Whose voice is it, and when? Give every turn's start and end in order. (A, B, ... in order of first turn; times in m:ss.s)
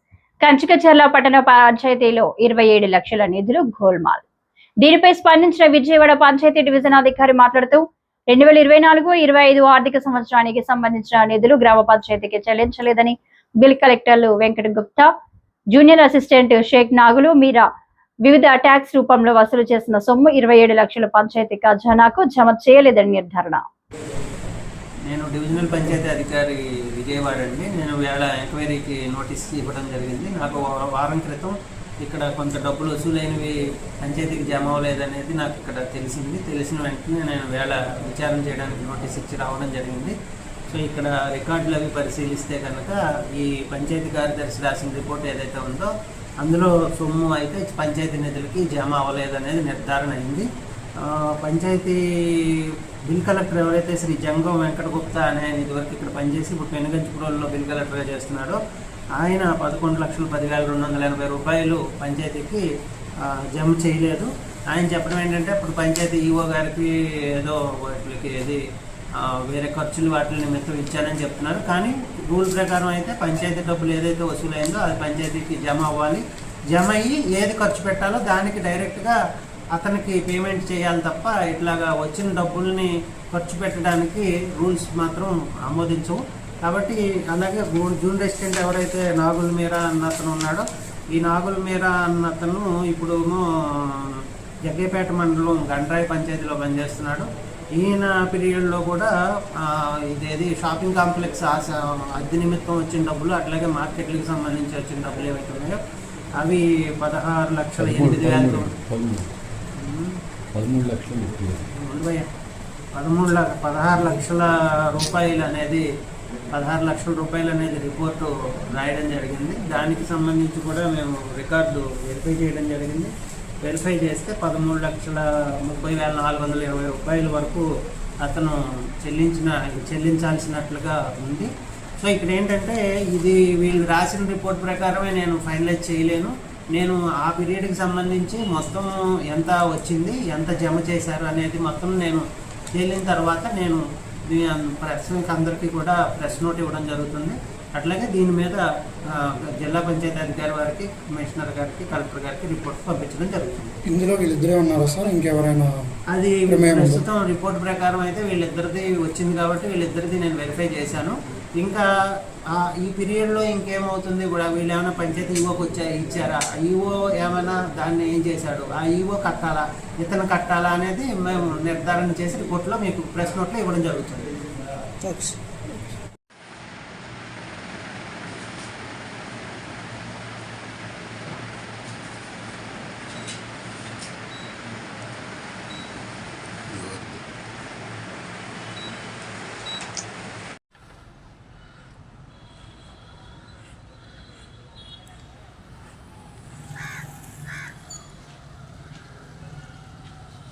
0:00.4-0:04.2 A
0:04.8-0:15.1 A
0:15.7-0:17.6 A
0:18.2-0:23.6 A
0:25.1-0:40.2 B
0:40.7-0:45.9 B
0:46.4-0:50.5 B
0:51.0-0:58.6 B
0:59.2-1:02.6 B
1:03.2-1:08.6 B
1:09.2-1:19.2 B
1:19.7-1:39.1 B
1:39.6-1:45.8 B
1:46.4-1:48.7 B
1:47.8-1:49.3 C
1:49.8-1:50.2 B
1:50.5-1:51.6 C
1:51.8-1:52.3 B
1:53.0-1:55.9 B
1:56.5-2:07.7 B
2:08.2-2:33.8 B
2:33.9-2:35.2 C
2:33.9-2:35.7 D
2:36.1-2:41.8 B
2:36.5-2:36.9 C
2:36.7-2:37.0 D
2:42.5-2:54.3 B